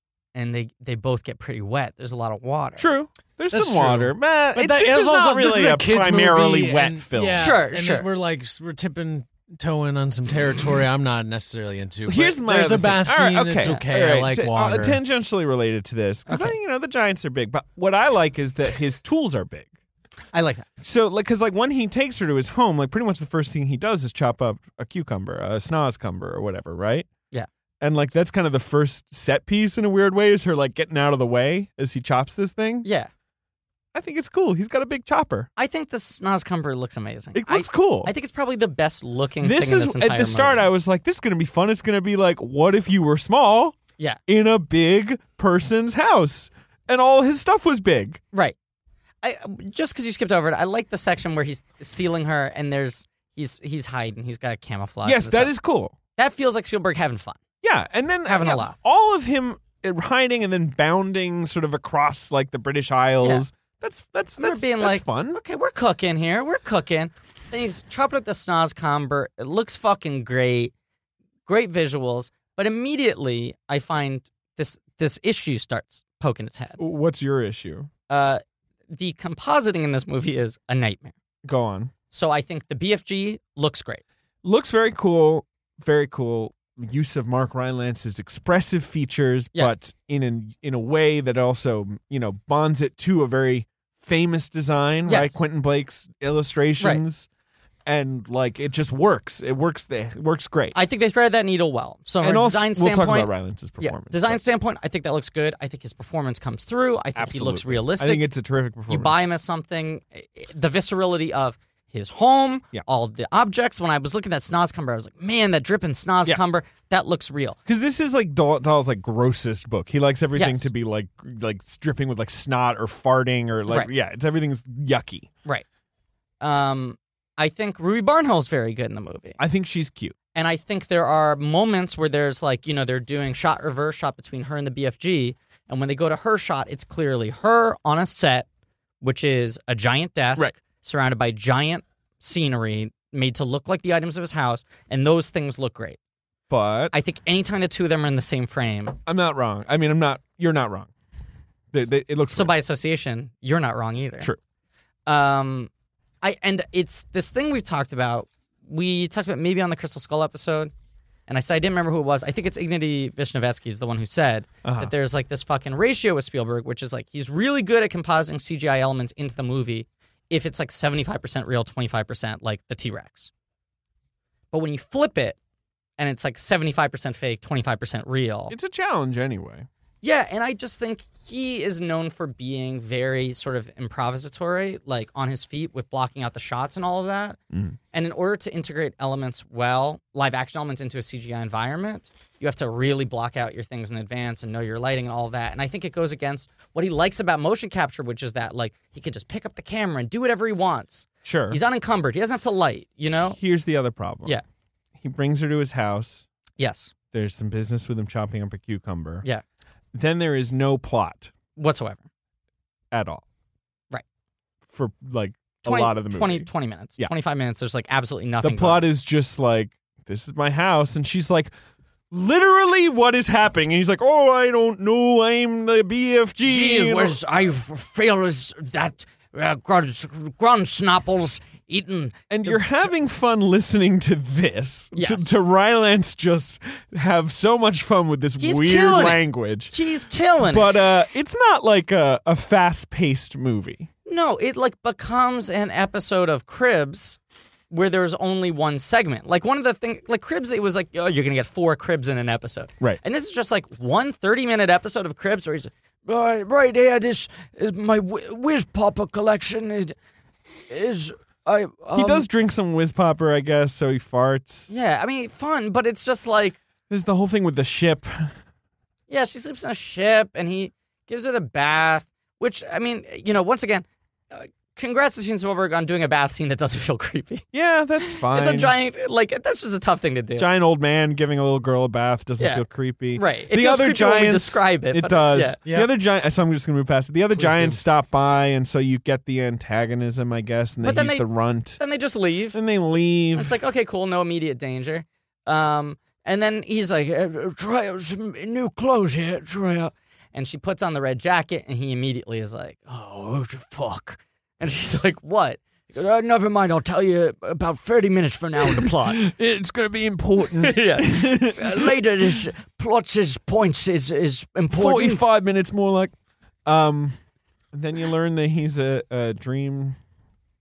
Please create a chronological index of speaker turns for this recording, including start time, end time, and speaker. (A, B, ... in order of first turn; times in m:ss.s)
0:00.3-0:02.9 A
0:02.8-0:07.5 B
0:03.5-0:15.0 C
0:07.4-0:08.1 A
0:12.1-0:19.7 B
0:16.3-0:16.6 A
0:20.3-0:20.7 A
0:20.8-0:27.1 B
0:27.8-0:32.9 B
0:32.8-0:33.1 A
0:33.9-0:35.5 B
0:35.6-0:40.7 A
0:37.4-0:38.1 B
0:39.4-0:48.2 B
0:49.2-0:55.5 A
0:55.0-0:56.0 B
0:56.2-0:57.4 A
0:57.6-1:05.4 B
0:58.3-0:58.8 A
1:04.4-1:10.7 A
1:11.5-1:16.8 A
1:16.8-1:17.9 B
1:18.1-1:21.2 A
1:21.4-1:21.9 B
1:22.1-1:24.0 A
1:24.4-1:37.3 B
1:35.1-1:35.4 A
1:37.9-1:40.8 B
1:40.7-1:48.3 A
1:42.2-1:44.4 B
1:47.2-1:49.2 B
1:48.9-1:57.6 A
1:57.7-2:05.3 B
2:00.4-2:00.7 A
2:06.4-2:09.4 A
2:09.4-2:10.2 B
2:10.4-2:18.5 A
2:19.0-2:26.0 A
2:26.5-2:26.9 B
2:26.9-2:29.0 A
2:29.1-2:30.9 B
2:31.7-2:32.6 B
2:32.3-2:34.3 A
2:35.1-2:35.7 A
2:36.2-2:40.7 A
2:41.3-2:53.3 A
2:44.6-2:44.9 B
2:54.5-2:55.4 A
2:56.0-2:58.6 A
2:58.5-2:59.7 B
3:00.0-3:07.4 A
3:07.5-3:07.8 B
3:07.9-3:23.4 A
3:21.2-3:21.6 B
3:23.3-3:24.4 B
3:25.0-3:26.3 B
3:26.6-3:26.9 A
3:27.1-3:29.2 B
3:29.9-3:31.3 B
3:31.6-3:32.0 A
3:32.9-3:33.2 B
3:34.7-3:37.1 B
3:35.6-3:38.9 A
3:38.4-3:41.5 B
3:42.1-3:47.2 B
3:46.4-3:52.2 D
3:52.3-3:59.8 B
3:54.9-3:55.3 A
3:58.4-4:00.7 A
4:00.4-4:03.9 B
4:04.1-4:07.2 A
4:07.7-4:15.7 A
4:16.1-4:20.0 D
4:20.7-4:22.2 D
4:21.9-4:24.7 B
4:24.7-4:26.6 A
4:26.9-4:28.4 B
4:29.1-4:37.5 A
4:37.5-4:38.7 B
4:38.0-4:40.5 A
4:40.4-4:51.8 B
4:42.4-4:42.6 A
4:43.2-4:45.6 A
4:47.3-4:47.8 C
4:50.8-4:51.3 A
4:51.8-4:52.6 A
4:52.5-4:53.6 B
4:53.4-4:56.7 A
4:56.7-4:59.9 D
5:00.3-5:02.9 A
5:02.9-5:04.2 D
5:04.6-5:05.6 A
5:05.9-5:09.2 D
5:08.9-5:12.0 B
5:10.6-5:11.3 A
5:11.5-5:15.2 D
5:14.7-5:16.1 B
5:16.6-5:17.2 B
5:17.7-5:20.0 B